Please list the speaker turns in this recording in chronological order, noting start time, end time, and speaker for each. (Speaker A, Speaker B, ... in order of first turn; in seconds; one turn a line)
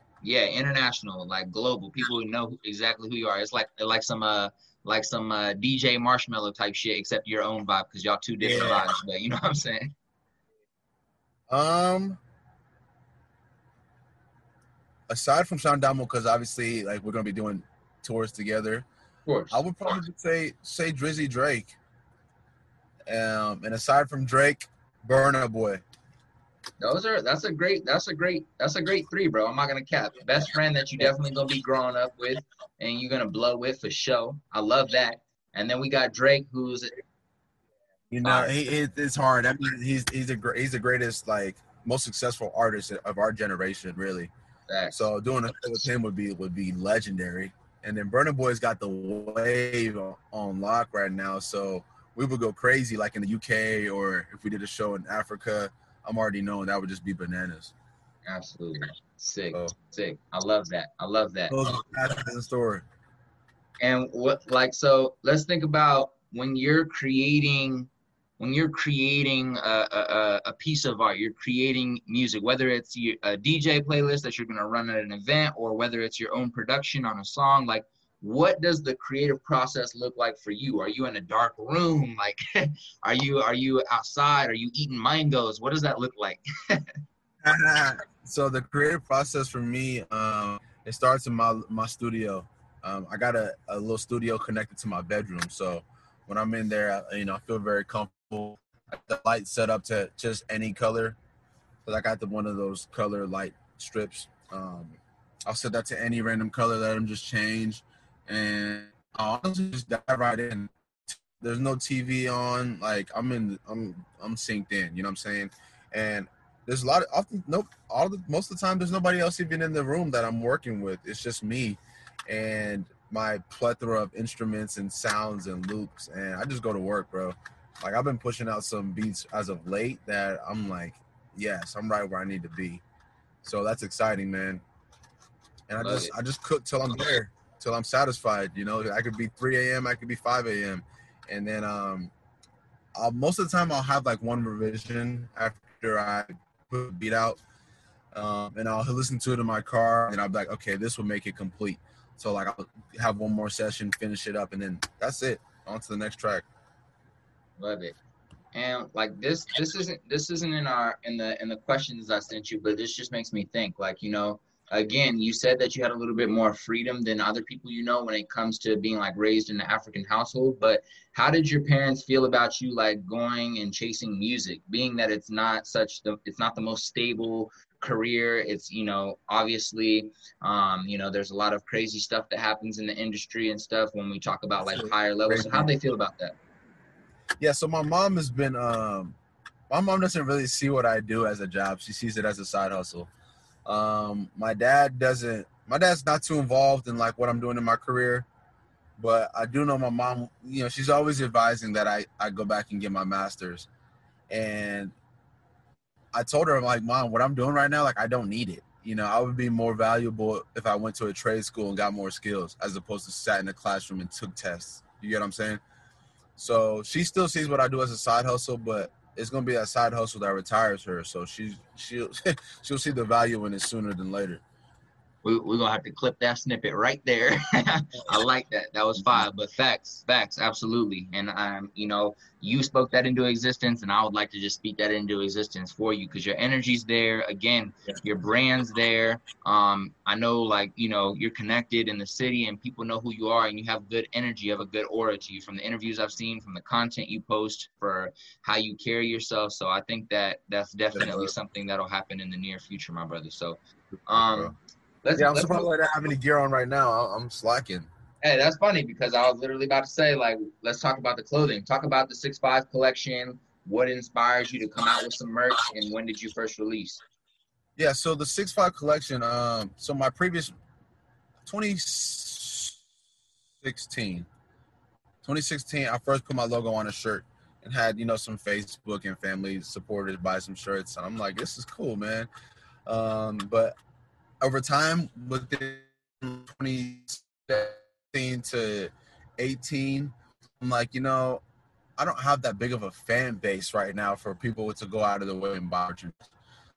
Speaker A: 0.2-9.9
Speaker B: 8.4-8.9
Speaker B: 11.5-12.2
Speaker B: 15.1-18.9
Speaker A: 19.3-19.6
Speaker B: 19.5-21.8
Speaker B: 23.1-25.8
Speaker A: 26.8-36.9
Speaker B: 38.1-44.3
Speaker A: 38.2-38.5
Speaker A: 44.7-45.0
Speaker B: 44.9-57.7
Speaker A: 58.3-61.5
Speaker B: 61.5-62.8
Speaker A: 63.8-86.9
Speaker B: 87.4-101.2
Speaker B: 101.8-132.8
Speaker B: 133.4-134.6
Speaker B: 135.7-142.1
Speaker A: 135.8-136.1
Speaker B: 142.9-147.4
Speaker B: 148.1-156.4
Speaker A: 157.6-158.0
Speaker A: 158.5-186.3
Speaker B: 184.7-185.7
Speaker B: 187.4-189.2
Speaker B: 189.7-193.1
Speaker B: 193.7-198.3
Speaker B: 199.0-203.7
Speaker B: 204.3-204.9
Speaker B: 206.1-215.6
Speaker B: 216.4-224.4
Speaker A: 225.2-255.7
Speaker B: 250.9-251.3
Speaker B: 254.1-254.5
Speaker B: 255.2-257.9
Speaker A: 258.2-267.0
Speaker B: 267.8-270.6
Speaker B: 271.4-272.8
Speaker B: 273.6-274.3
Speaker B: 275.2-282.3
Speaker B: 282.9-283.7
Speaker B: 284.4-291.4
Speaker B: 292.0-296.3